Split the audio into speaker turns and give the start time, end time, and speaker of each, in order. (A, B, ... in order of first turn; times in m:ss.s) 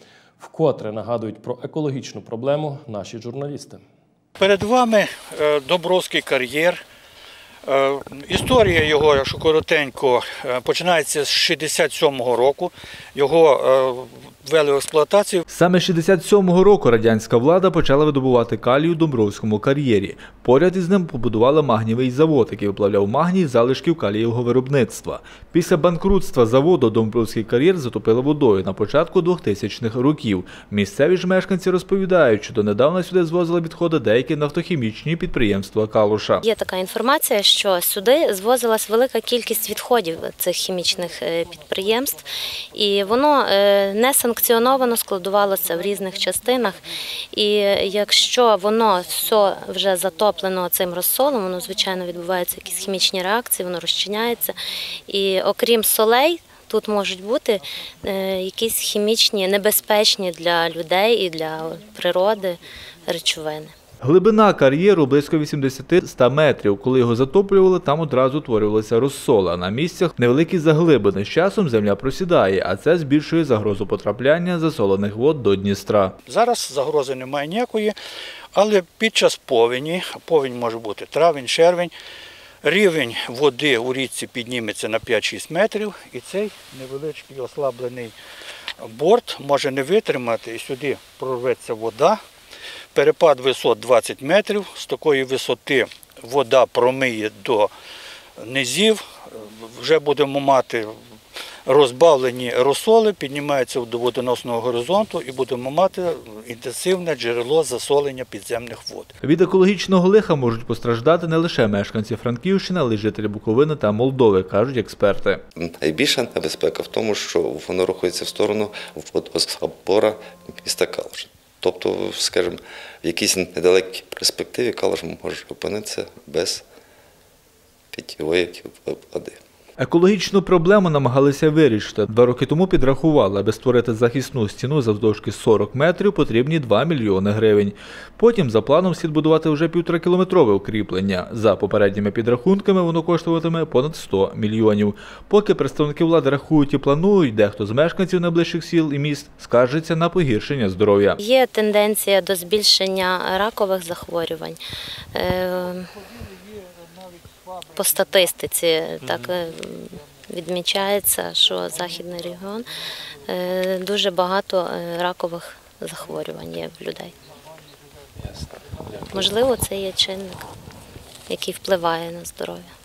0:00.4-0:03.8 A
0:04.4-0:06.8 B
0:07.6-0:15.4 B
0:15.5-0:36.4 C
0:36.4-0:42.2 D
0:42.7-1:03.7 D
1:04.0-1:16.1 C
1:16.2-1:18.0 B
1:18.5-1:21.9 B
1:22.6-1:28.1 B
1:28.8-1:32.2 B
1:32.9-1:37.7 B
1:38.4-1:40.9 B
1:41.6-1:49.1 B
1:49.2-1:55.4 C
1:55.6-2:06.6 E
2:07.9-2:09.4 E
2:09.8-2:31.2 C
2:31.2-2:34.6 D
2:35.1-2:35.9 D
2:37.7-2:42.7 D
2:43.2-2:47.1 D
2:49.1-2:50.5 D
2:51.3-2:52.7 D